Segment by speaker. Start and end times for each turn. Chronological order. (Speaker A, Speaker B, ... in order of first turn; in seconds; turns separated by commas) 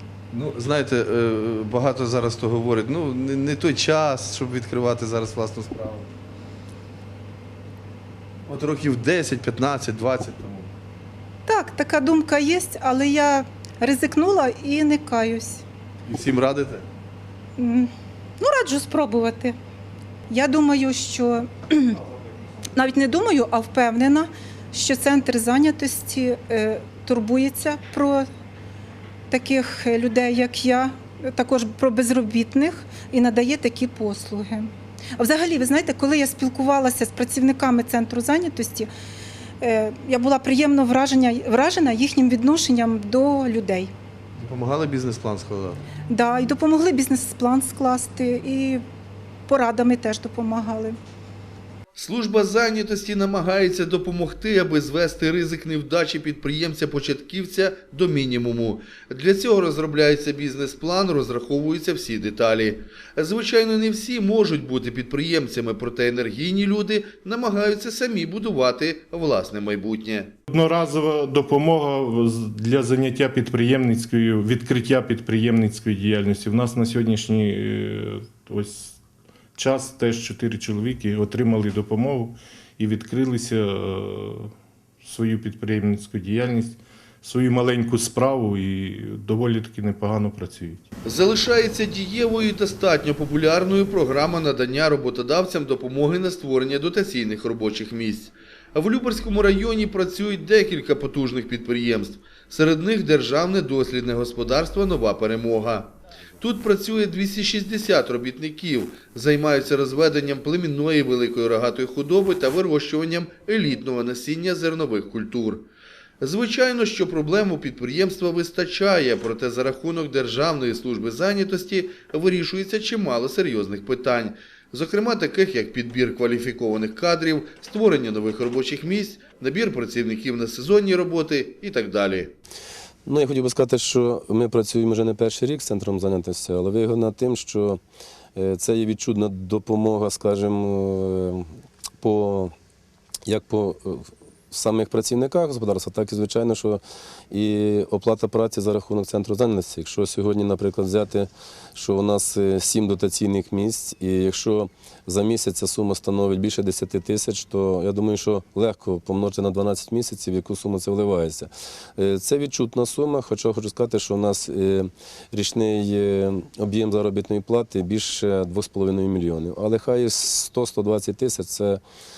Speaker A: 0.3-6.1, Speaker A: 8.5-10.7, Speaker B: 11.5-15.6, Speaker A: 16.1-16.8, Speaker B: 17.6-19.6, Speaker B: 20.3-22.0, Speaker B: 22.8-28.3, Speaker B: 29.3-38.9, Speaker B: 39.6-43.9, Speaker A: 44.4-45.8, Speaker B: 46.1-48.8, Speaker B: 49.5-51.0, Speaker C: 52.0-70.3, Speaker D: 70.5-79.0, Speaker D: 79.5-90.8, Speaker C: 91.0-115.7, Speaker C: 116.2-132.3, Speaker E: 133.0-137.8, Speaker E: 138.3-141.5, Speaker E: 142.0-142.5, Speaker E: 143.2-171.8